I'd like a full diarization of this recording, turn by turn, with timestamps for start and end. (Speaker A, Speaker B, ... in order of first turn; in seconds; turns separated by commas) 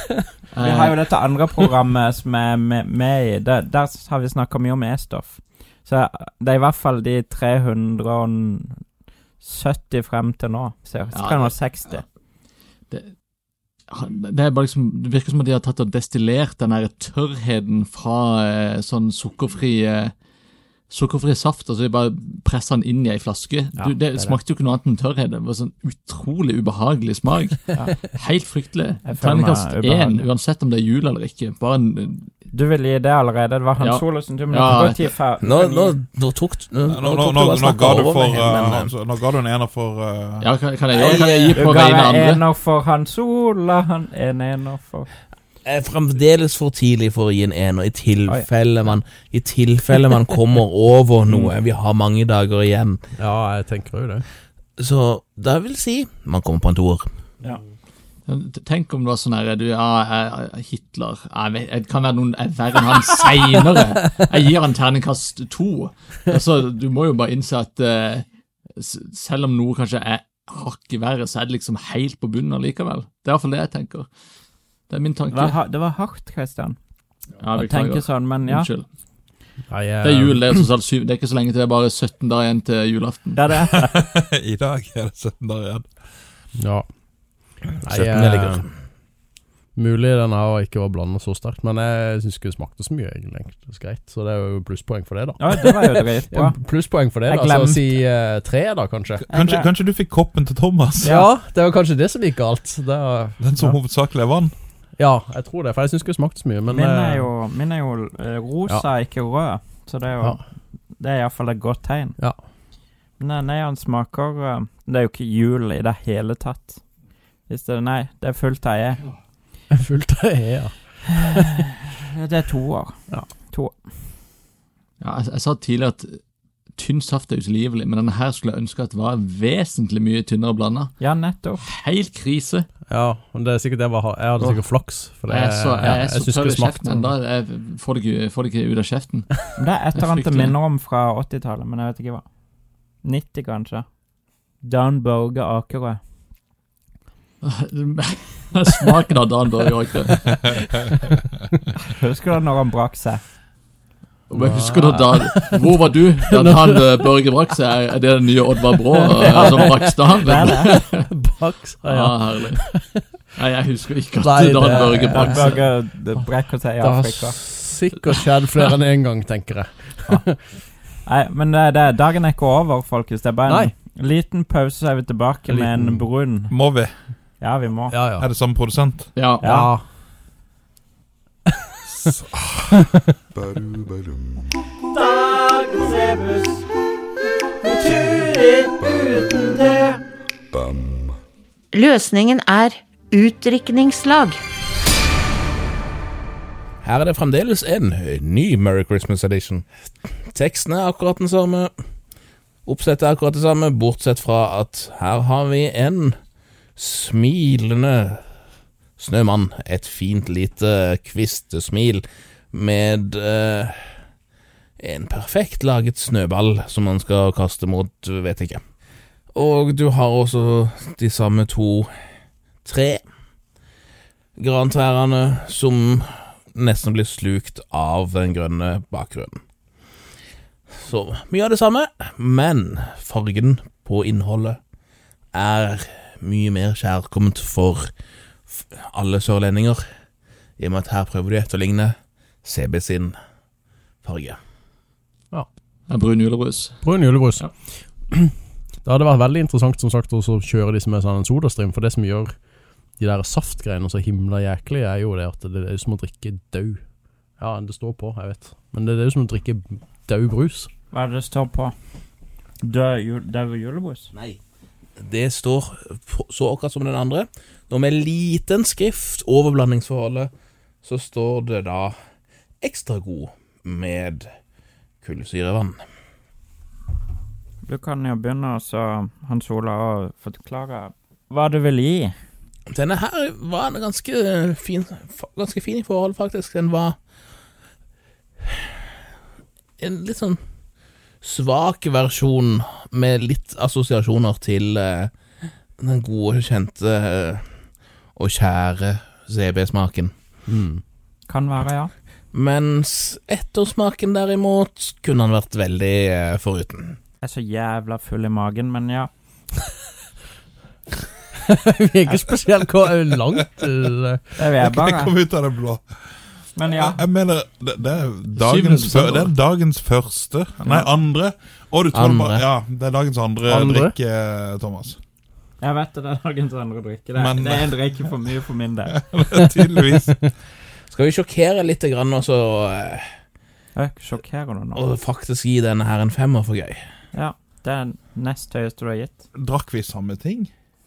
Speaker A: 0.5-1.0, Speaker B: 0.6-8.8, Speaker B: 9.4-12.0, Speaker A: 11.1-12.0, Speaker A: 13.9-20.1, Speaker A: 20.9-32.3, Speaker B: 23.8-24.4, Speaker B: 29.0-30.3, Speaker B: 32.5-36.0, Speaker A: 33.8-35.0, Speaker C: 35.4-38.9, Speaker D: 36.9-40.5, Speaker A: 40.4-42.4, Speaker C: 41.0-41.6, Speaker B: 41.2-45.1, Speaker C: 45.6-53.0, Speaker E: 53.2-54.2, Speaker C: 54.8-57.1, Speaker A: 58.2-74.1, Speaker A: 74.9-75.6, Speaker B: 75.3-76.8, Speaker A: 77.4-78.8, Speaker B: 77.5-78.7, Speaker E: 79.7-80.5, Speaker A: 80.0-83.5, Speaker B: 83.3-83.9, Speaker D: 83.7-85.9, Speaker E: 86.6-86.9, Speaker E: 87.8-88.7, Speaker C: 87.8-88.7, Speaker E: 89.7-99.2, Speaker B: 95.4-96.5, Speaker B: 97.1-97.9, Speaker D: 99.2-101.2, Speaker B: 99.3-99.7, Speaker E: 101.1-103.5, Speaker D: 103.4-104.5, Speaker E: 105.0-107.3, Speaker B: 106.7-110.4, Speaker B: 110.9-112.2, Speaker B: 113.2-116.8, Speaker B: 117.5-119.1, Speaker E: 119.7-121.4, Speaker B: 121.2-123.8, Speaker A: 125.0-126.2, Speaker A: 126.7-131.0, Speaker B: 131.0-131.6, Speaker A: 131.6-132.7, Speaker E: 132.9-137.1, Speaker A: 134.4-134.6, Speaker A: 135.3-140.5, Speaker B: 139.6-142.2, Speaker B: 143.0-143.8, Speaker B: 144.6-146.0, Speaker A: 147.4-151.1, Speaker B: 151.8-153.2, Speaker A: 154.3-161.0, Speaker E: 154.3-155.7, Speaker E: 156.2-157.1, Speaker E: 158.7-159.9, Speaker B: 160.2-160.7, Speaker E: 160.5-163.1, Speaker A: 161.8-162.6, Speaker A: 163.3-165.7, Speaker E: 164.2-165.6, Speaker B: 165.1-167.4, Speaker E: 166.8-170.4, Speaker B: 171.0-176.5, Speaker E: 173.5-173.7, Speaker E: 175.5-176.1, Speaker D: 176.5-176.9, Speaker B: 177.4-178.0, Speaker E: 177.9-178.3, Speaker D: 178.2-179.1, Speaker A: 179.2-179.4, Speaker B: 179.4-179.7, Speaker E: 179.4-179.8, Speaker B: 184.9-186.6, Speaker B: 187.6-190.0, Speaker F: 191.7-194.4, Speaker C: 196.8-199.6, Speaker C: 200.3-201.7, Speaker C: 202.6-206.2, Speaker C: 206.8-208.2, Speaker C: 209.0-214.0, Speaker C: 214.8-218.6, Speaker C: 219.3-221.9, Speaker C: 222.6-223.0, Speaker C: 224.4-229.4, Speaker C: 230.8-234.6, Speaker C: 235.3-237.9, Speaker C: 238.5-239.8, Speaker C: 240.6-243.1, Speaker C: 244.0-244.4, Speaker A: 245.9-247.5, Speaker E: 246.8-252.3, Speaker E: 253.0-256.8, Speaker E: 257.4-260.7, Speaker B: 260.9-261.7, Speaker B: 262.6-264.1, Speaker C: 265.0-270.3, Speaker C: 270.8-271.9, Speaker C: 272.6-274.3, Speaker C: 275.0-275.8, Speaker B: 277.6-282.1, Speaker C: 282.7-287.0, Speaker C: 289.8-290.4, Speaker C: 291.2-295.1, Speaker C: 295.8-297.5, Speaker C: 298.1-300.1, Speaker E: 300.5-300.8, Speaker B: 301.3-301.9, Speaker C: 302.3-307.0, Speaker B: 307.2-309.1, Speaker E: 311.4-314.2, Speaker B: 314.4-315.1, Speaker D: 314.5-315.8, Speaker B: 316.6-317.0, Speaker D: 316.7-325.0, Speaker A: 318.4-319.3, Speaker C: 321.9-322.4, Speaker E: 323.5-323.9, Speaker B: 325.6-328.9, Speaker D: 327.1-328.1, Speaker D: 328.9-330.1, Speaker C: 330.9-333.1, Speaker B: 333.7-334.8, Speaker C: 334.7-336.8, Speaker B: 337.1-339.2, Speaker D: 339.3-340.5